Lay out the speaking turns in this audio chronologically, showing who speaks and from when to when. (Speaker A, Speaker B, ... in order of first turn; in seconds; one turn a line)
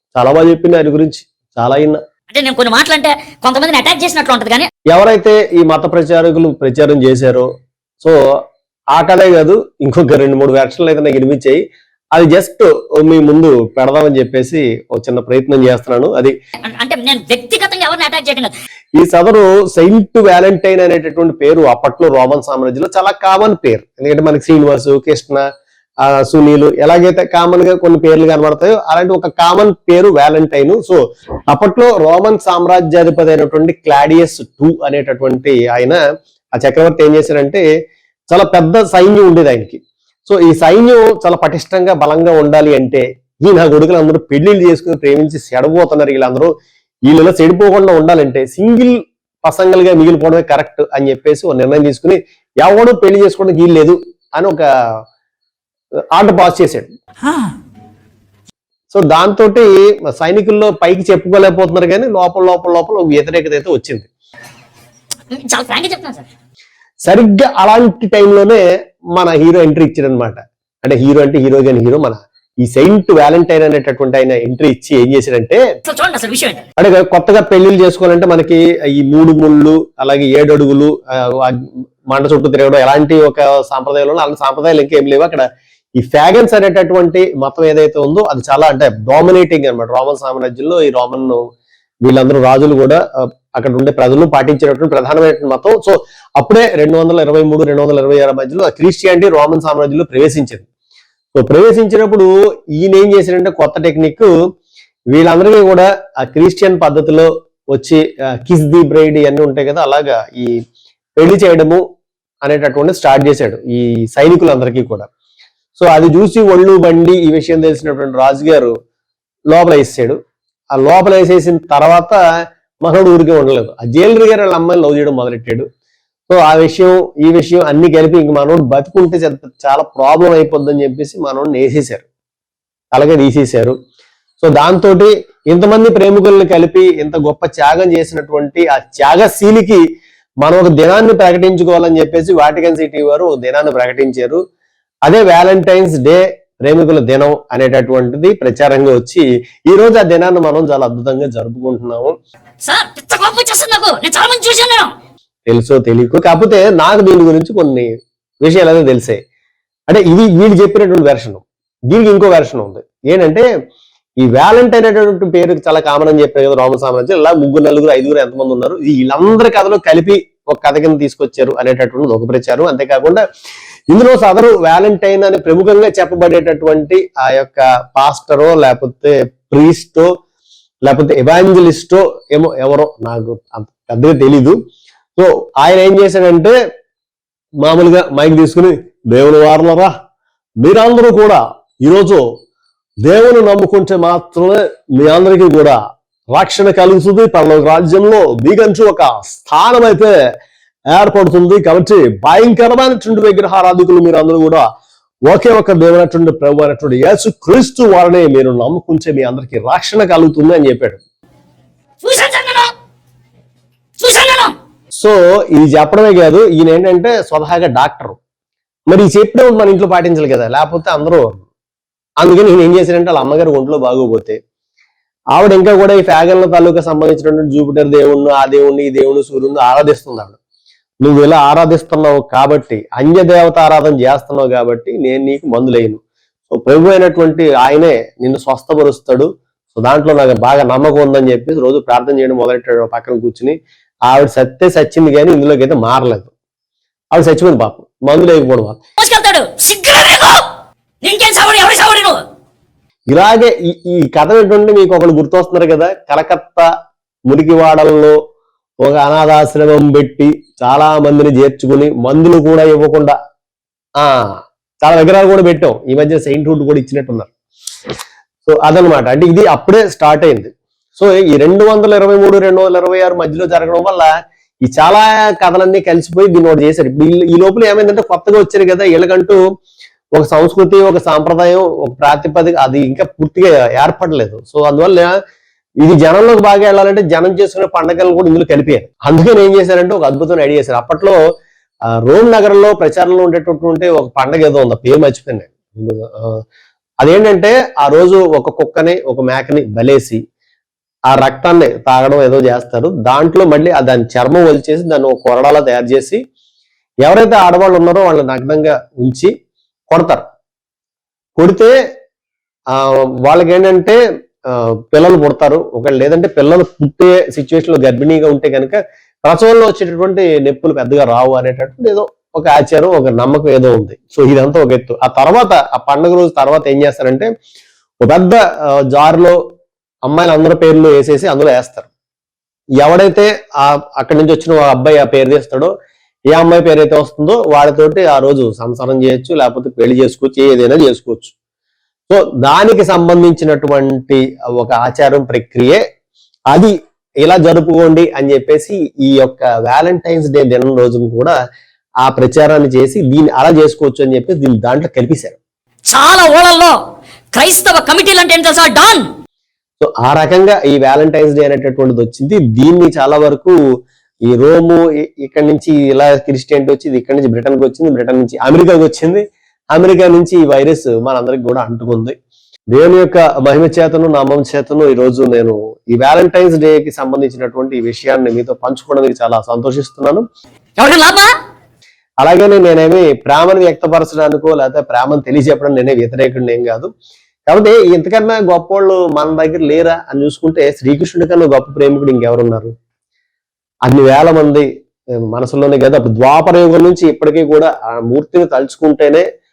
Speaker A: 0.1-2.0
Speaker B: 2.3-4.7
Speaker A: 4.9-7.5
Speaker A: 8.9-16.3
Speaker B: 16.6-18.5
Speaker A: 19.0-25.4
Speaker A: 26.0-36.0
Speaker A: 36.5-37.6
Speaker A: 38.3-46.5
Speaker A: 47.1-54.6
Speaker A: 56.1-56.9
Speaker A: 58.9-64.1
Speaker B: 65.3-66.3
Speaker A: 67.0-68.6
Speaker A: 69.1-75.6
Speaker B: 75.8-76.6
Speaker A: 76.8-85.4
Speaker A: 86.0-91.4
Speaker A: 92.0-93.0
Speaker A: 93.5-100.6
Speaker A: 101.3-104.3
Speaker A: 105.1-110.5
Speaker A: 111.2-111.8
Speaker A: 112.4-115.1
Speaker A: 115.8-118.7
Speaker A: 119.5-120.2
Speaker A: 120.7-122.2
Speaker A: 122.8-125.7
Speaker A: 126.3-132.0
Speaker A: 132.9-133.7
Speaker A: 134.4-139.8
Speaker A: 140.4-144.4
Speaker A: 145.1-152.1
Speaker B: 152.6-154.9
Speaker A: 155.5-157.9
Speaker A: 158.4-159.2
Speaker A: 159.9-163.5
Speaker A: 164.2-173.2
Speaker A: 173.9-180.1
Speaker A: 180.8-184.6
Speaker A: 185.2-186.5
Speaker A: 187.6-189.9
Speaker A: 190.6-192.2
Speaker A: 193.0-195.8
Speaker A: 196.3-200.1
Speaker A: 200.9-204.7
Speaker A: 205.3-211.0
Speaker B: 212.0-212.7
Speaker B: 214.0-214.5
Speaker A: 214.9-218.2
Speaker A: 218.9-221.4
Speaker A: 222.2-224.4
Speaker A: 225.3-230.4
Speaker A: 231.0-243.6
Speaker A: 244.1-246.3
Speaker A: 247.1-248.8
Speaker B: 249.0-250.4
Speaker B: 251.0-252.2
Speaker A: 253.1-256.6
Speaker A: 257.3-258.2
Speaker A: 258.8-263.1
Speaker A: 264.0-267.3
Speaker A: 268.4-274.1
Speaker A: 274.6-279.4
Speaker A: 280.1-285.1
Speaker A: 285.8-291.2
Speaker A: 292.0-296.4
Speaker A: 297.0-300.2
Speaker A: 301.1-306.2
Speaker A: 307.0-309.3
Speaker A: 309.9-310.2
Speaker A: 311.4-311.7
Speaker A: 312.7-314.0
Speaker A: 314.5-327.3
Speaker A: 328.0-329.4
Speaker A: 330.1-331.9
Speaker A: 332.8-335.7
Speaker A: 336.3-341.3
Speaker A: 342.1-345.8
Speaker A: 346.5-351.4
Speaker A: 352.0-355.4
Speaker B: 355.9-356.8
Speaker B: 357.3-359.1
Speaker A: 359.8-363.5
Speaker A: 364.3-372.1
Speaker A: 372.7-380.2
Speaker B: 380.8-381.3
Speaker A: 382.2-386.9
Speaker A: 387.5-392.7
Speaker A: 393.9-394.7
Speaker A: 395.3-399.2